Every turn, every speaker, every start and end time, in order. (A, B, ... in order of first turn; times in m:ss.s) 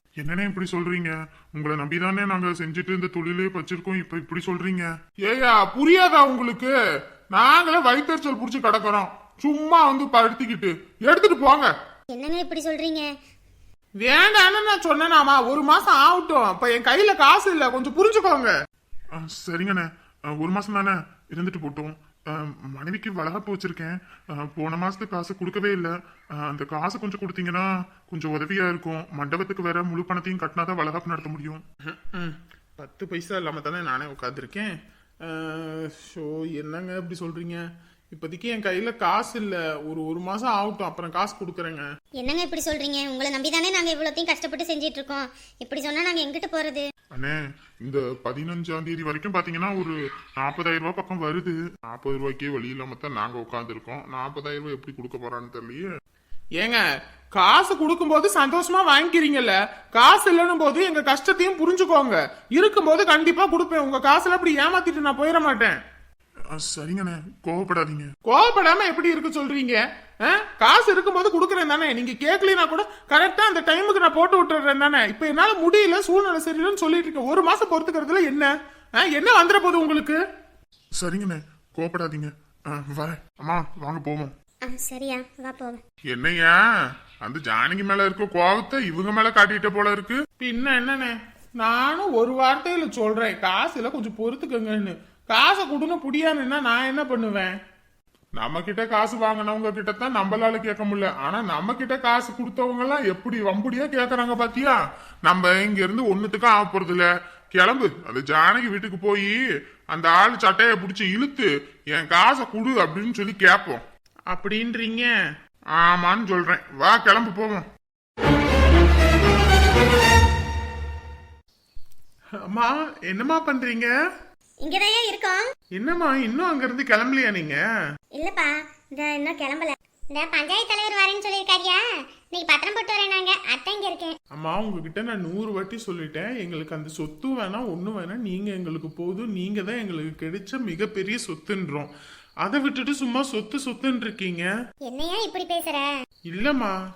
0:00.2-0:06.7 A
0:07.3-0:11.7 A
0:12.1-0:13.1 B
0:14.0-0:18.5 C
0:19.1-0:31.6 A
0:31.9-0:34.7 C
0:35.2-0:41.8 C
0:42.2-0:46.9 B
0:47.1-0:55.9 A
0:57.3-1:05.8 C
1:06.5-1:08.1 A
1:08.3-1:20.2 C
1:21.0-1:24.3 A
1:24.7-1:25.8 B
1:26.1-1:26.6 A
1:27.2-1:30.2 A
1:30.4-1:37.6 C
1:38.4-1:49.4 A
1:49.9-1:53.8 A
1:54.3-1:55.1 C
1:55.8-1:57.7 A
2:02.5-2:03.9 C
2:04.6-2:05.5 B
2:05.8-2:07.6 C
2:08.1-2:14.1 B
2:14.4-2:21.9 C
2:22.4-2:24.5 C
2:24.9-2:25.9 B
2:26.3-2:26.8 C